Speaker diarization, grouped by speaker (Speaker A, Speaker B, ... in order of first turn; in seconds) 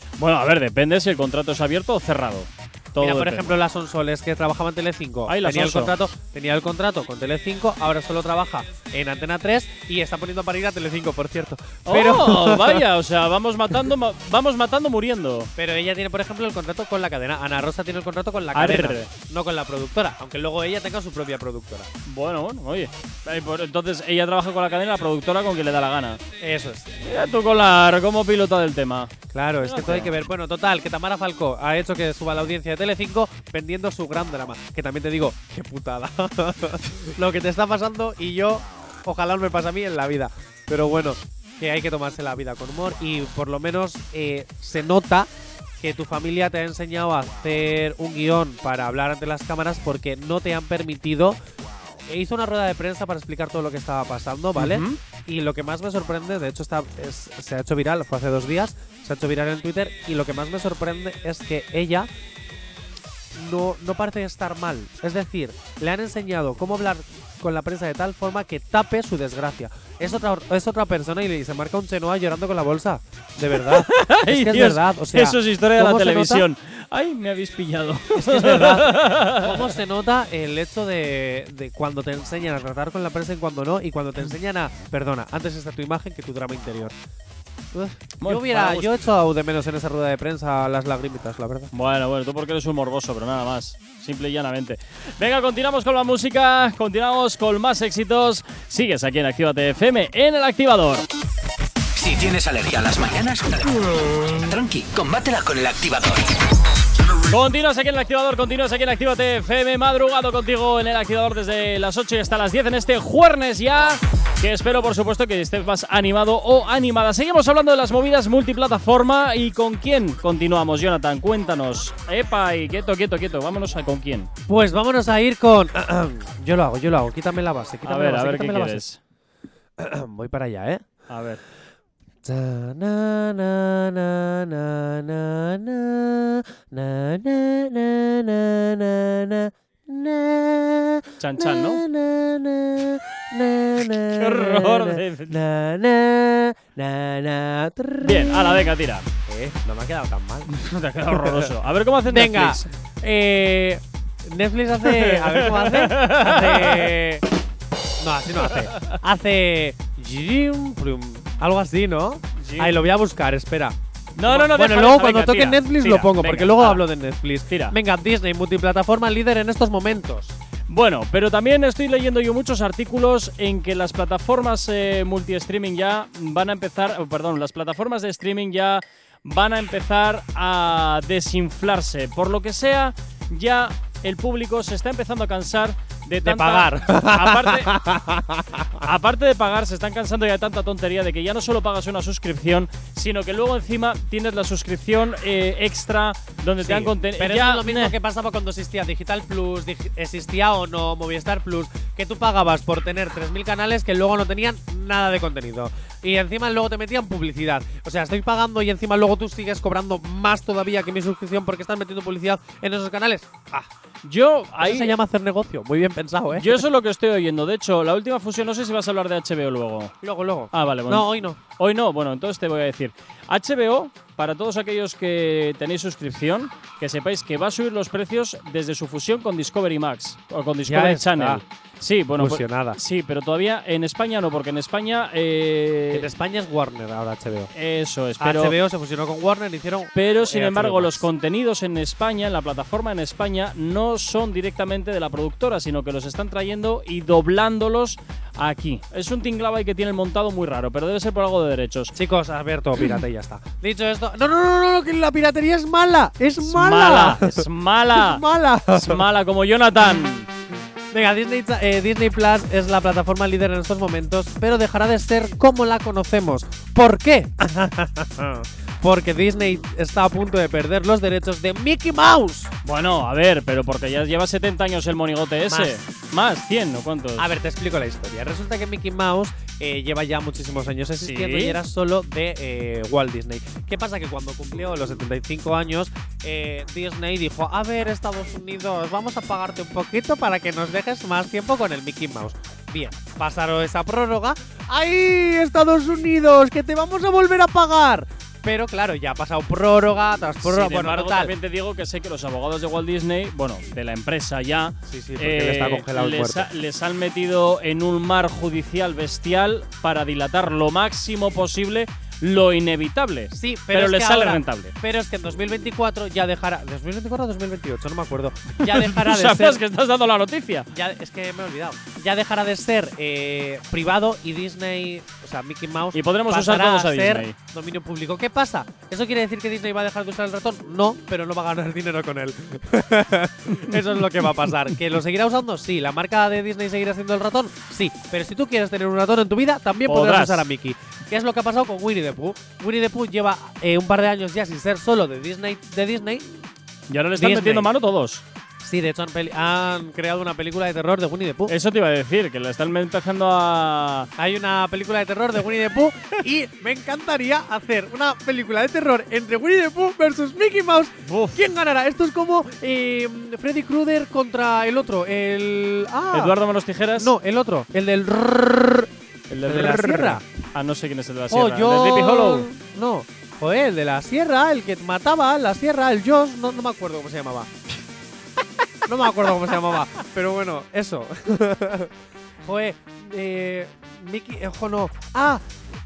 Speaker A: 0.2-3.5, 5.3-5.9, 11.8-15.5, 18.5-19.1, 22.1-26.2, 27.0-30.1, 54.5-55.0, 73.5-79.8, 88.2-89.1, 91.7-101.0, 107.3-124.3, 127.8-129.0, 131.1-131.4, 141.2-141.8, 144.1-145.4, 148.0-149.1, 150.5-152.7, 154.8-156.9, 162.4-162.8, 164.2-166.8, 167.5-167.8, 170.7-187.8, 188.8-197.9, 214.0-215.0, 216.3-219.9, 220.5-236.1, 237.5-238.6, 239.9-251.9, 256.4-260.3, 272.6-277.3, 281.0-281.6, 300.4-314.7, 318.6-320.7, 325.9-327.4, 339.9-340.5, 346.9-348.2, 351.5-354.1, 361.0-361.4, 366.1-367.1, 369.3-372.5
Speaker B: 3.0-12.8, 15.6-21.9, 26.4-26.9, 29.3-51.4, 52.1-62.1, 63.3-76.5, 78.1-87.0, 87.7-91.7, 124.5-128.8, 129.8-130.8, 132.2-150.5, 151.0-151.5, 152.0-157.2, 158.0-170.3, 186.2-188.9, 196.6-213.7, 214.6-216.6, 220.0-221.4, 230.7-231.4, 232.2-232.8, 235.9-237.5, 238.2-241.1, 251.9-259.0, 260.9-272.5, 275.5-275.8, 277.2-301.3, 304.9-306.5, 313.3-319.6, 320.7-346.3, 347.1-347.7, 348.6-351.5, 354.2-366.4, 367.0-368.9, 369.4-370.2, 371.3-377.5, 378.8-381.9, 382.4-385.4
Speaker C: 101.9-106.3